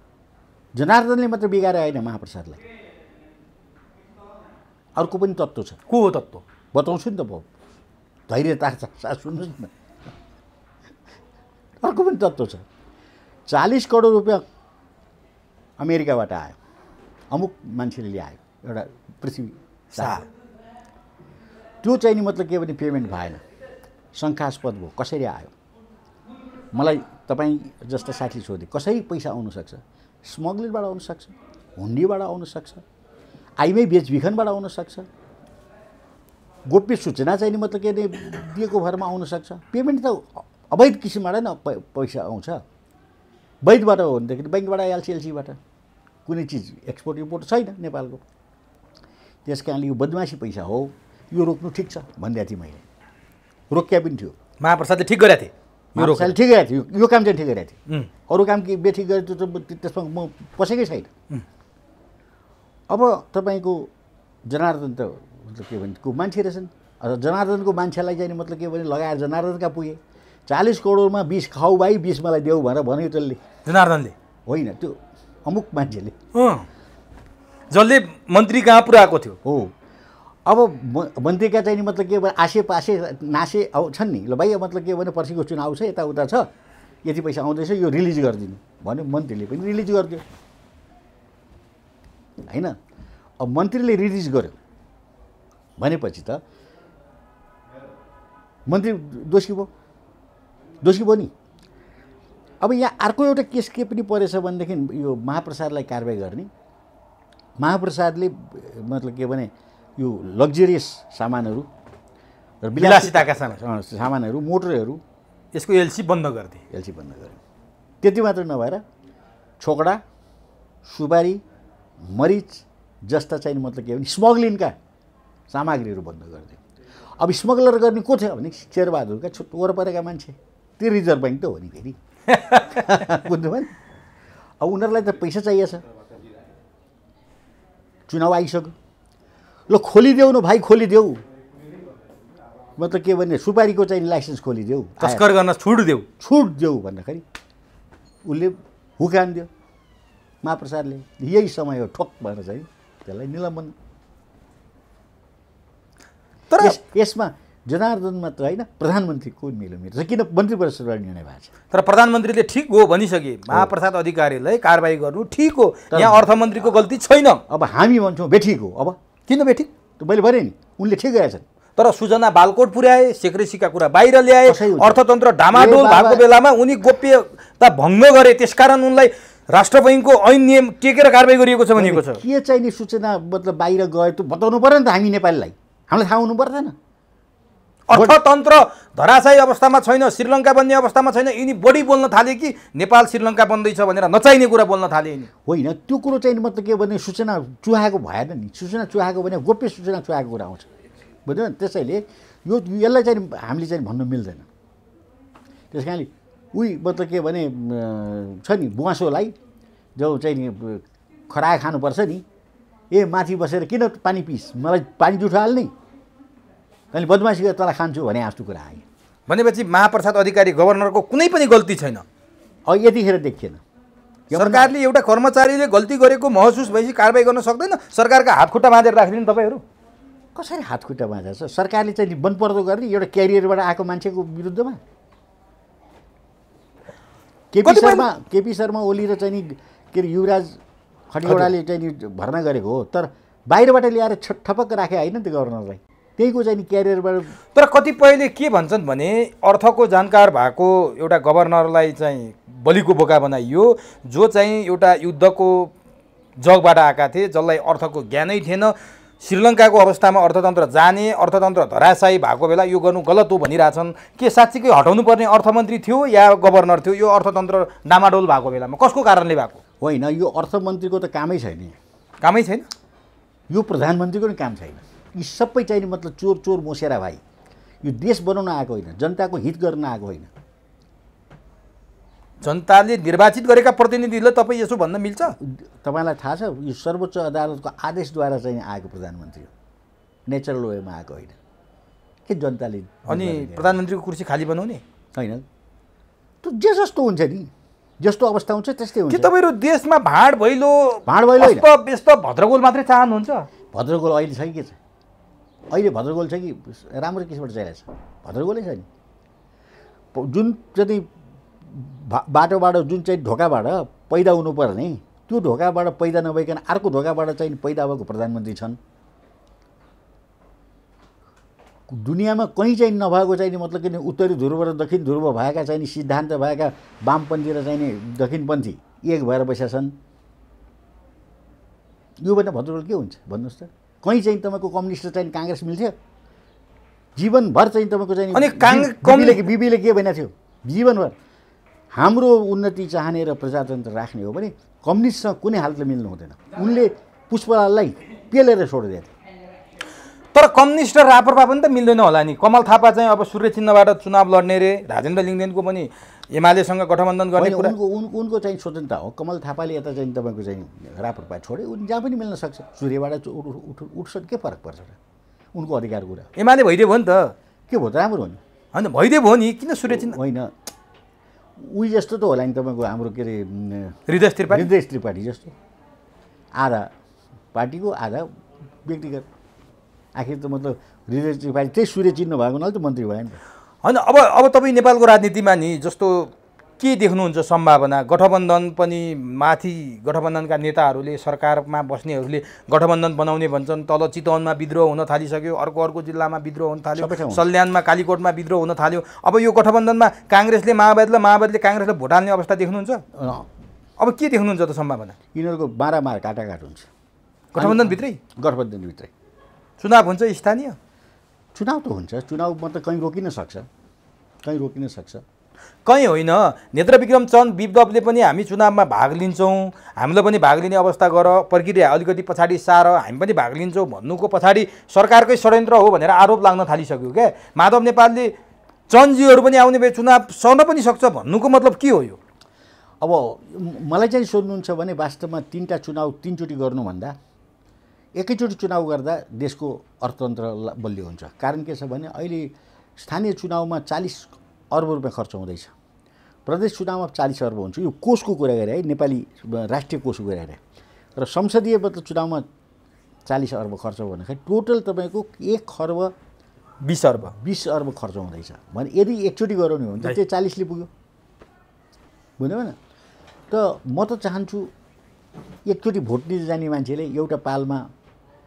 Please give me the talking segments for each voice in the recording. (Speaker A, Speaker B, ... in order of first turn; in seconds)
Speaker A: 0.7-2.6, 5.0-5.8, 6.7-7.5, 8.3-9.7, 11.8-12.6, 13.5-14.4, 15.8-16.6, 17.3-20.2, 21.8-23.4, 24.1-25.5, 26.7-32.8, 33.6-35.1, 36.7-42.6, 43.6-45.6, 46.2-48.2, 49.4-52.8, 53.7-54.3, 55.9-61.1, 62.9-63.9, 64.5-73.4, 74.5-76.1, 79.4-79.7, 80.4-86.5, 87.0-90.2, 92.5-92.7, 93.4-94.5, 95.8-96.4, 98.7-99.7, 100.8-101.3, 102.6-106.5, 107.6-111.7, 112.6-115.0, 116.7-117.4, 118.0-118.8, 119.6-120.0, 120.8-121.4, 122.0-124.7, 125.5-126.6, 127.2-132.0, 132.7-133.7, 134.6-135.8, 138.1-138.7, 139.7-141.2, 142.8-145.3, 146.2-147.2, 148.2-149.5, 150.4-153.7, 156.6-161.5, 165.9-166.3, 167.5-169.0, 170.0-171.4, 174.4-176.2, 181.8-186.7, 195.4-200.7, 201.2-204.5, 205.7-209.3, 209.9-212.2, 212.9-215.7, 216.9-218.8, 222.7-223.6, 224.3-224.7, 230.3-234.8, 237.5-247.3, 269.8-271.8, 273.5-277.2, 277.8-280.3, 285.4-289.5, 290.3-291.4, 292.2-293.8, 295.1-295.4, 296.4-299.3, 301.1-301.7, 303.7-304.8, 305.7-308.9, 310.1-311.1, 311.6-318.8, 321.9-329.9, 332.2-335.9, 337.1-341.1, 341.9-349.1, 357.4-365.0, 365.5-366.3, 367.7-368.4, 369.9-370.5, 371.6-374.0, 374.5-375.5, 376.6-376.9, 377.5-378.3, 378.8-379.3, 380.1-383.4, 396.9-397.4, 403.1-403.5, 405.3-406.9, 407.6-409.1, 411.5-413.7, 414.4-415.2, 433.0-437.1, 438.1-445.7, 446.4-450.6, 451.1-452.4, 453.2-456.1, 457.3-460.9, 462.4-462.8, 463.5-464.7, 465.7-467.9
Speaker B: 5.9-6.4, 19.9-20.2, 54.6-56.3, 73.6-74.1, 76.3-76.7, 77.7-79.4, 112.8-113.6, 115.5-116.6, 132.3-133.0, 145.0-146.1, 156.5-156.8, 161.7-167.4, 169.3-169.7, 171.8-182.2, 187.9-195.3, 219.3-222.0, 224.3-229.6, 237.6-238.1, 241.2-241.5, 247.5-255.7, 256.4-269.6, 272.2-272.7, 282.4-285.4, 293.1-294.8, 299.1-303.5, 338.3-339.5, 350.3-357.7, 366.4-367.3, 368.7-370.2, 374.1-374.7, 383.8-403.0, 404.0-405.1, 407.5-408.2, 409.8-410.8, 415.9-428.3, 428.9-432.2, 456.8-457.3